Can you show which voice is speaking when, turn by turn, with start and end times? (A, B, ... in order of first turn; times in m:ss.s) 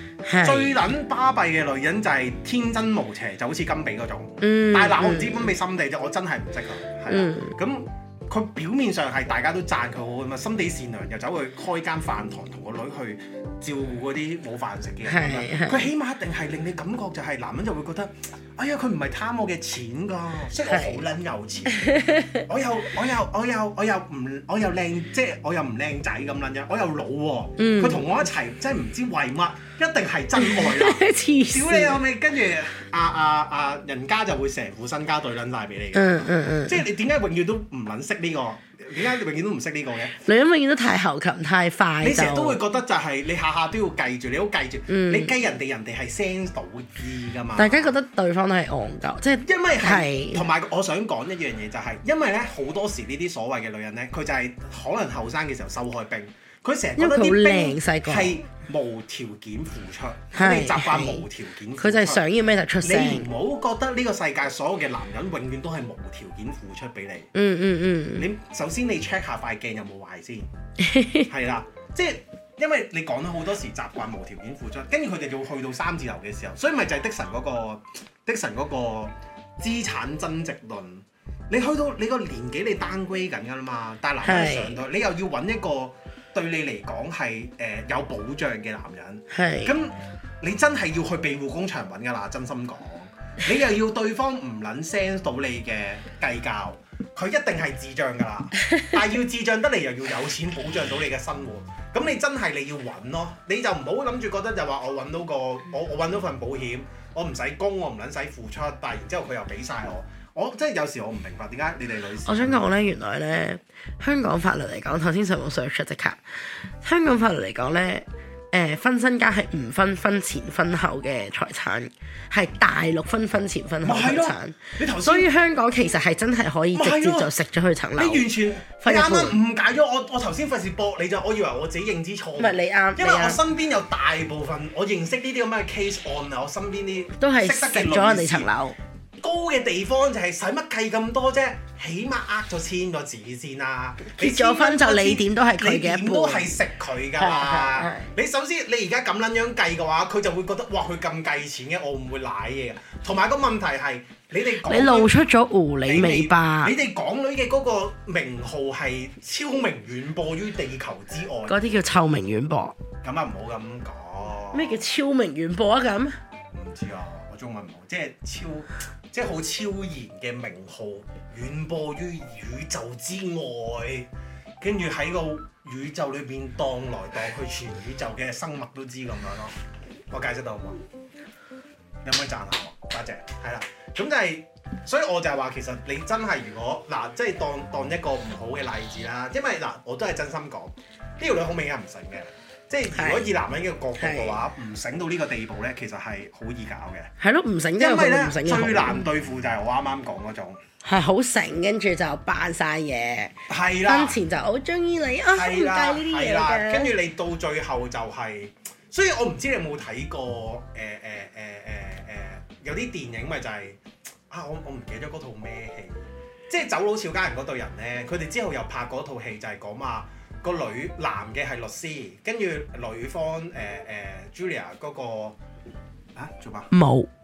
0:00.2-0:00.8 A
0:00.4-0:40.2 B
0:04.4-0:05.5 A
0:07.1-0:07.6 A
0:15.0-0:15.9 A
0:20.7-0:21.0 A
0:21.7-0:22.5 A
0:27.6-0:28.1 A
0:30.4-0:32.0 A
0:35.9-0:36.8 A
0:40.2-0:42.6 A
0:42.0-0:48.0 B
0:44.9-0:45.3 A
0:47.6-0:50.5 A
0:49.4-1:02.3 B
0:57.0-0:58.4 A
1:00.3-1:01.2 A
1:01.8-1:03.3 A
1:02.8-1:07.3 B
1:07.3-1:08.3 A
1:08.2-1:10.5 B
1:10.8-1:11.3 A
1:11.3-1:52.7 B
1:24.2-1:24.8 A
1:29.3-1:29.7 A
1:52.3-1:56.2 A
1:56.8-2:08.3 A
2:03.8-2:05.3 B
2:06.7-2:07.3 B
2:08.0-2:18.5 B
2:08.8-2:09.4 A
2:12.4-2:13.4 A
2:17.2-2:18.8 A
2:19.2-2:35.1 B
2:24.1-2:26.6 A
2:27.2-2:28.1 A
2:34.6-2:36.7 A
2:35.9-2:41.6 B
2:41.5-2:42.8 A
2:43.0-2:44.8 B
2:44.5-2:46.2 A
2:46.5-2:59.6 B
3:00.1-3:00.8 B
3:02.0-3:17.1 B
3:12.9-3:13.3 A
3:14.0-3:14.4 A
3:17.2-3:19.1 A
3:17.8-3:20.6 B
3:20.8-3:23.4 A
3:23.5-3:24.2 B
3:23.9-3:26.9 A
3:25.3-3:45.4 B
3:46.2-3:46.7 B
3:46.7-3:47.1 A